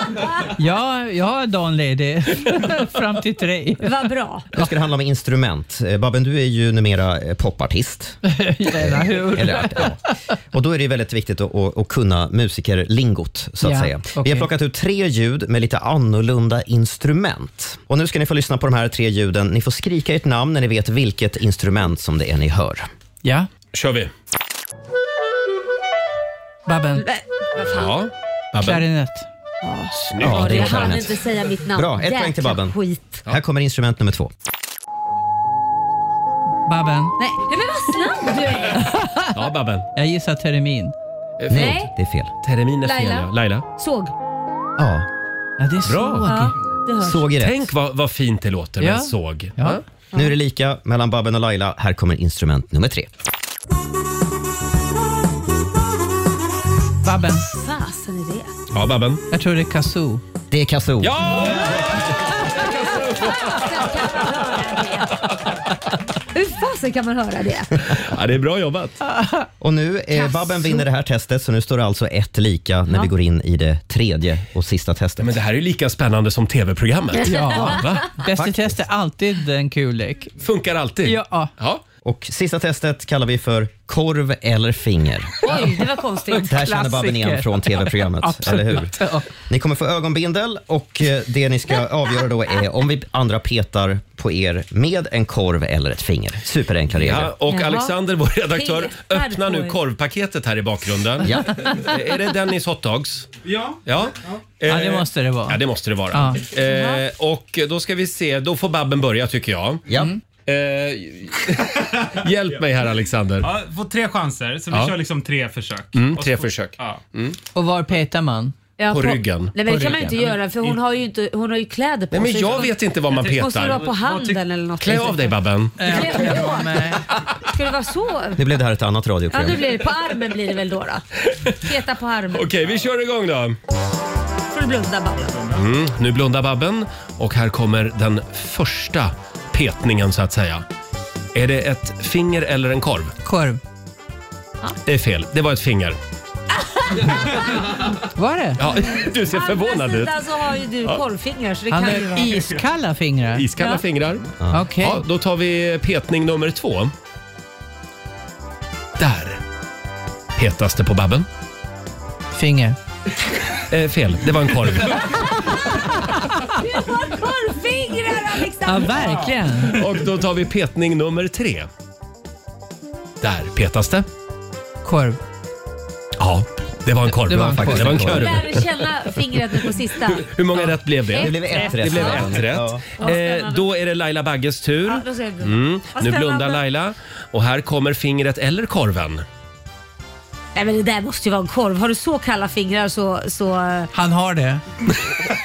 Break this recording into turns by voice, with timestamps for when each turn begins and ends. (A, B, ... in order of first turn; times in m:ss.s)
0:00.6-0:03.9 A
0:03.8-0:04.5 B
0:04.5-0:08.2 C
0:08.2-0:10.0 A
0:08.7-0:10.0 C
0:10.5-0:22.9 C
0:13.6-0:14.5 A
0:23.2-0:23.5 A
0:23.7-0:24.1 D
0:26.6-0:27.0 A
0:27.0-0:27.9 B
0:27.6-0:28.8 D
0:28.6-0:29.3 A
0:29.6-0:33.2 B
0:29.9-0:31.0 D
0:30.2-0:31.2 C
0:31.7-0:32.7 C
0:33.3-0:34.3 C
0:36.7-0:37.1 A
0:37.2-0:38.8 B
0:38.7-0:39.3 A
0:39.3-0:39.9 D
0:40.0-0:40.9 A
0:41.4-0:41.9 D
0:41.5-0:42.3 C
0:41.5-0:41.9 B
0:42.4-0:43.6 D
0:42.8-0:44.1 B
0:44.8-0:45.1 C
0:45.6-0:46.5 A
0:45.8-0:46.3 D
0:46.2-0:47.3 B
0:47.0-0:47.7 C
0:47.3-0:49.8 D
0:48.8-0:49.8 A
0:50.1-0:53.1 C
0:57.0-0:57.4 A
0:57.4-0:58.5 B
0:58.7-0:59.2 D
0:59.3-1:00.2 A
1:00.5-1:01.5 C
1:01.0-1:03.8 D
1:02.5-1:05.2 B
1:06.3-1:07.8 B
1:07.8-1:09.0 D
1:09.1-1:09.4 A
1:09.6-1:15.3 C
1:10.1-1:10.8 B
1:15.2-1:18.1 D
1:17.2-1:20.3 A
1:18.3-1:18.8 C
1:20.4-1:21.8 D
1:21.0-1:21.5 A
1:22.0-1:25.3 C
1:25.4-1:26.6 B
1:26.3-1:29.3 A
1:26.4-1:37.3 C
1:37.0-1:43.3 D
1:37.5-1:37.9 B
1:38.5-1:39.7 B
1:41.2-1:41.5 C
1:43.4-1:44.4 E
1:43.8-1:49.8 D
1:44.7-1:45.6 A
1:46.1-1:46.5 A
1:46.6-1:47.0 B
1:50.4-1:53.5 D
1:53.4-1:57.0 E
1:55.9-1:57.4 D
1:57.5-1:58.6 A
1:58.8-2:06.9 B
1:58.9-1:59.5 D
1:59.7-2:00.0 A
2:02.1-2:03.9 D
2:03.1-2:04.4 E
2:04.8-2:05.8 D
2:05.8-2:07.0 A
2:07.4-2:08.4 B
2:08.4-2:09.6 C
2:09.3-2:11.0 B
2:11.6-2:12.5 B
2:12.3-2:13.6 D
2:14.5-2:15.4 B
2:15.5-2:20.6 D
2:21.3-2:23.1 D
2:23.2-2:23.6 A
2:24.8-2:26.0 D
2:28.1-2:28.6 A
2:28.6-2:30.1 D
2:29.2-2:32.5 B
2:31.7-2:33.5 A
2:33.3-2:36.9 D
2:33.6-2:33.8 B
2:34.4-2:34.7 C
2:34.5-2:35.0 A
2:39.0-2:39.4 D
2:40.4-2:41.3 D
2:42.3-2:42.8 A
2:43.7-2:45.1 D
2:45.1-2:45.8 B
2:46.4-2:49.3 B
2:48.6-2:49.8 A
2:49.7-2:51.7 D
2:53.2-2:54.0 D
2:54.8-2:55.2 A
2:56.2-2:58.9 D
2:57.2-2:58.1 A
2:57.5-2:58.4 C
2:58.1-3:00.3 B
3:00.0-3:09.2 D
3:01.1-3:02.3 B
3:01.2-3:02.8 C
3:03.0-3:03.7 B
3:04.8-3:06.6 B
3:10.5-3:13.9 B
3:13.9-3:14.6 A